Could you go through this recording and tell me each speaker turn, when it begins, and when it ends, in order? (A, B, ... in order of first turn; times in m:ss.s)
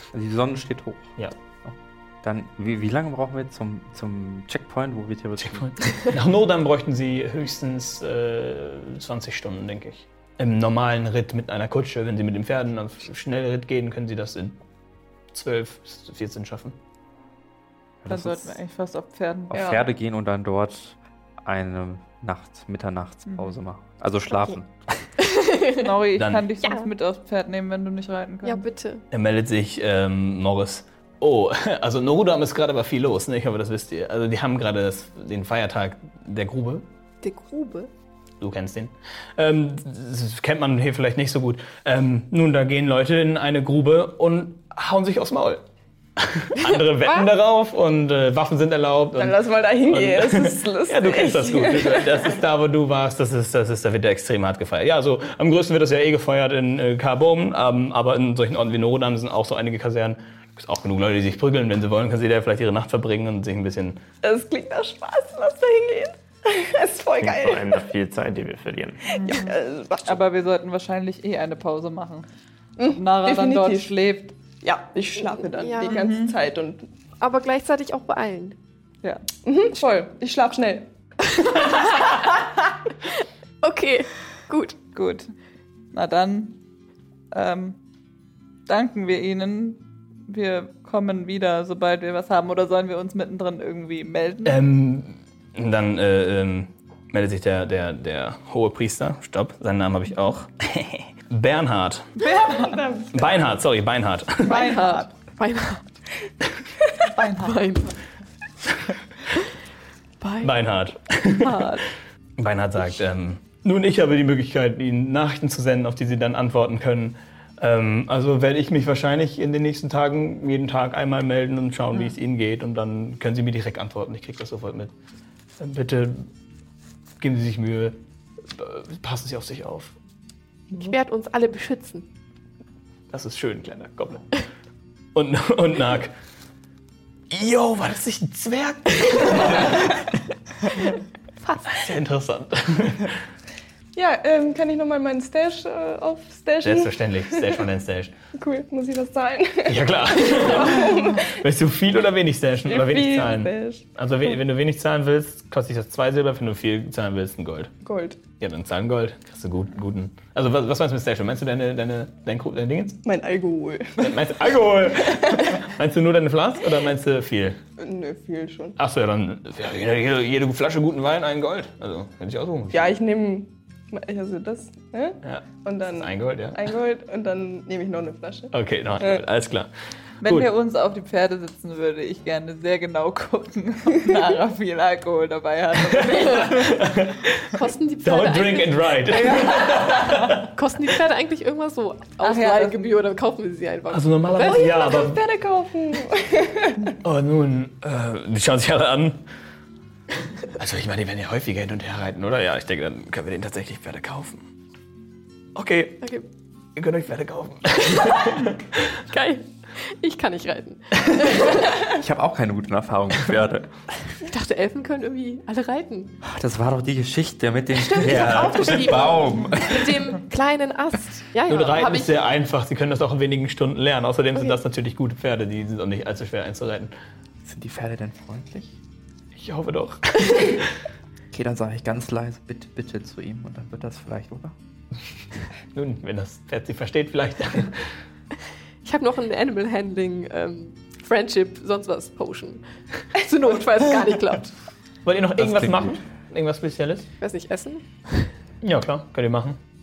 0:00.1-0:05.8 A
0:05.4-0:14.6 B
0:15.3-0:16.8 B
0:18.0-0:18.6 A
0:18.1-0:19.7 C
0:19.5-0:24.7 A
0:19.5-0:19.8 D
0:23.3-0:23.5 C
0:24.3-0:24.6 E
0:25.2-0:25.9 E
0:25.8-0:28.6 C
0:26.2-0:26.4 B
0:26.6-0:26.9 E
0:28.4-0:29.0 E
0:29.1-0:36.8 B
0:37.2-0:37.9 E
0:38.4-0:45.6 B
0:46.2-1:04.0 B
0:46.7-0:47.3 E
0:49.2-0:52.4 D
1:04.2-1:07.8 D
1:07.2-1:09.2 F
1:09.1-1:09.5 C
1:09.2-1:10.2 D
1:10.0-1:12.3 C
1:12.8-1:13.9 D
1:12.9-1:14.4 C
1:14.6-1:16.9 D
1:15.2-1:16.0 E
1:15.9-1:16.4 C
1:17.2-1:18.6 E
1:19.4-1:20.9 D
1:21.4-1:22.3 E
1:23.6-1:24.8 E
1:24.9-1:25.3 C
1:25.9-1:26.6 C
1:27.3-1:27.8 C
1:28.7-1:34.6 C
1:34.4-1:42.2 B
1:42.2-1:42.8 C
1:42.4-1:43.6 D
1:43.1-1:44.8 B
1:44.4-1:45.1 C
1:44.4-1:45.9 E
1:47.0-1:47.6 C
1:47.4-1:48.0 E
1:50.2-1:50.5 E
1:50.4-1:51.8 B
1:51.4-1:51.8 C
1:52.4-2:04.9 B
2:05.6-2:06.3 B
2:07.2-2:10.0 B
2:10.7-2:12.1 E
2:13.1-2:14.4 B
2:15.2-2:16.1 B
2:17.3-2:20.1 B
2:21.4-2:21.7 E
2:21.7-2:23.2 B
2:23.9-2:27.6 D
2:26.6-2:28.1 B
2:28.4-2:31.4 D
2:29.7-2:37.7 B
2:32.6-2:34.4 D
2:37.8-2:38.2 D
2:38.4-2:43.0 B
2:43.0-2:45.6 D
2:44.0-2:47.6 B
2:47.8-2:48.8 D
2:48.8-2:52.9 B
2:52.7-2:59.2 D
2:55.2-2:56.7 B
2:58.5-2:59.7 B
3:00.2-3:00.5 B
3:00.2-3:06.7 C
3:05.9-3:10.5 B
3:06.2-3:06.8 E
3:07.5-3:15.0 E
3:09.2-3:10.0 C
3:12.2-3:12.8 C
3:13.9-3:15.2 B
3:14.4-3:17.0 D
3:17.0-3:19.2 B
3:20.4-3:24.4 B
3:25.6-3:26.0 B
3:26.0-3:26.3 E
3:26.8-3:28.8 B
3:29.1-3:31.9 E
3:31.8-3:33.8 A
3:34.2-3:36.2 E
3:36.2-3:40.1 A
3:37.7-3:42.2 E
3:41.5-3:46.9 B
3:47.4-3:48.7 A
3:49.4-3:50.7 B
3:51.3-3:54.6 A
3:55.7-3:57.8 B
3:58.8-4:04.5 E
4:05.0-4:07.1 B
4:05.4-4:06.0 A
4:07.2-4:08.3 E
4:08.6-4:09.6 B